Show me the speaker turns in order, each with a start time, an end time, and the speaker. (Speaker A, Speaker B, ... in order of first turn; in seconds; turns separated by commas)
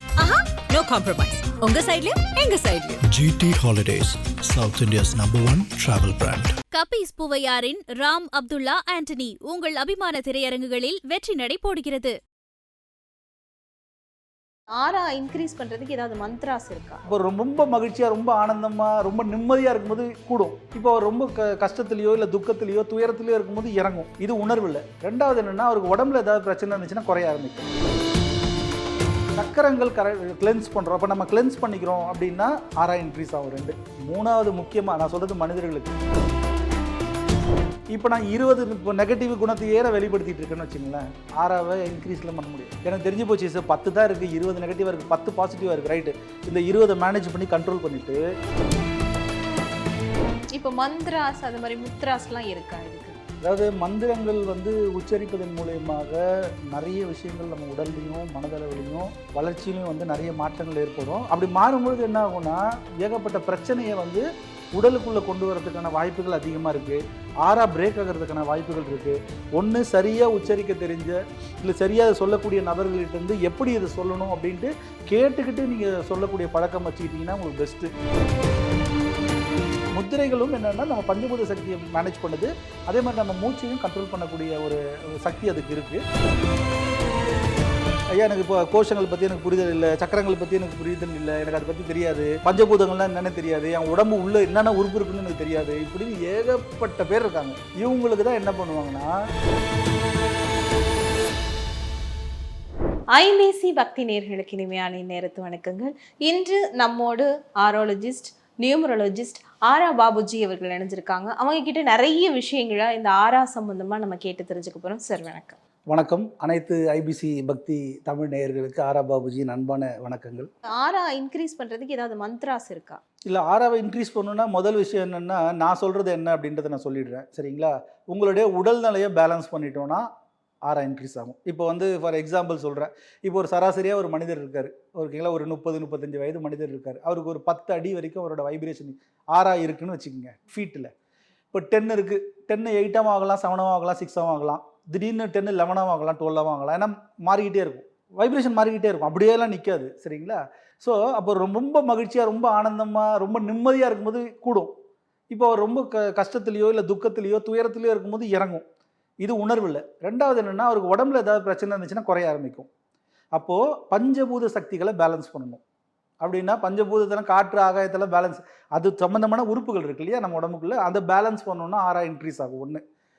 Speaker A: 0.2-3.0, Speaker B: 3.0-6.5, Speaker C: 6.7-12.1, Speaker D: 14.8-17.0, Speaker E: 17.1-27.6, Speaker E: 29.4-35.9, Speaker E: 37.9-48.2, Speaker D: 50.5-53.2, Speaker E: 53.4-77.9, Speaker E: 79.9-86.0, Speaker E: 88.2-99.1, Speaker D: 103.1-115.6, Speaker E: 115.9-120.5, Speaker D: 120.8-123.0, Speaker E: 123.3-130.0, Speaker E: 130.7-140.9, Speaker E: 141.5-154.7, Speaker E: 155.3-158.6, Speaker E: 159.2-162.7, Speaker E: 163.3-165.6, Speaker E: 166.2-172.8